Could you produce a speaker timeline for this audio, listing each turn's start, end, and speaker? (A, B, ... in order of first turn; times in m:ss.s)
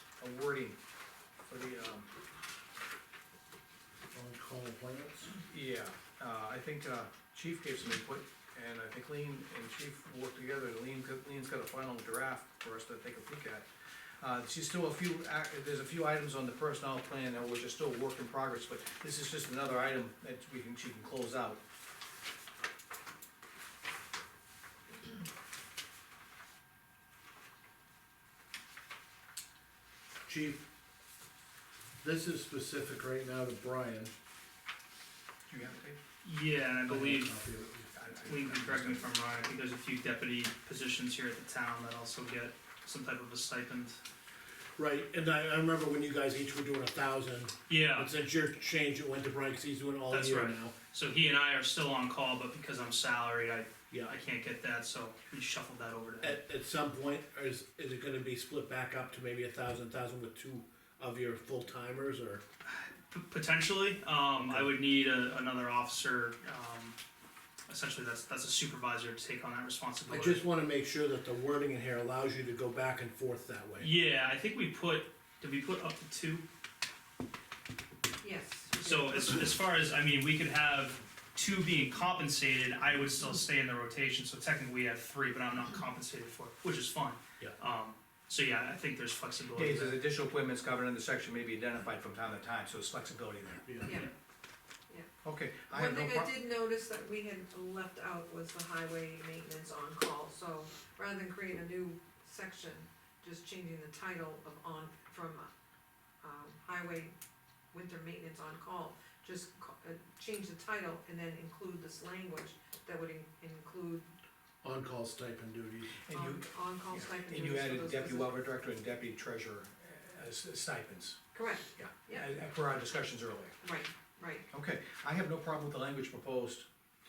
0:00.2-0:00.8 A
0:01.5-0:02.1 A
0:04.1-0:05.3 B
0:05.5-0:13.7 A
0:14.2-0:21.6 A
0:30.2-0:30.6 B
0:32.0-0:34.1 B
0:35.5-0:36.0 A
0:36.2-0:37.4 C
0:36.8-0:37.9 B
0:37.9-0:39.0 A
0:38.2-0:44.0 C
0:44.8-0:50.7 B
0:47.7-0:48.1 C
0:50.1-0:56.4 C
0:56.2-1:02.4 B
1:02.6-1:07.0 C
1:04.4-1:04.7 B
1:07.7-1:10.4 C
1:10.1-1:13.9 B
1:13.8-1:16.4 C
1:18.2-1:19.4 D
1:18.8-1:30.0 C
1:29.6-1:33.7 A
1:33.7-1:34.0 B
1:33.8-1:34.1 D
1:35.2-1:36.3 A
1:35.7-1:45.5 D
1:46.2-1:47.1 D
1:47.7-1:54.1 D
1:54.6-1:56.0 B
1:56.1-2:03.6 A
1:56.1-1:58.4 D
2:01.3-2:02.3 D
2:03.6-2:04.5 D
2:04.5-2:06.7 A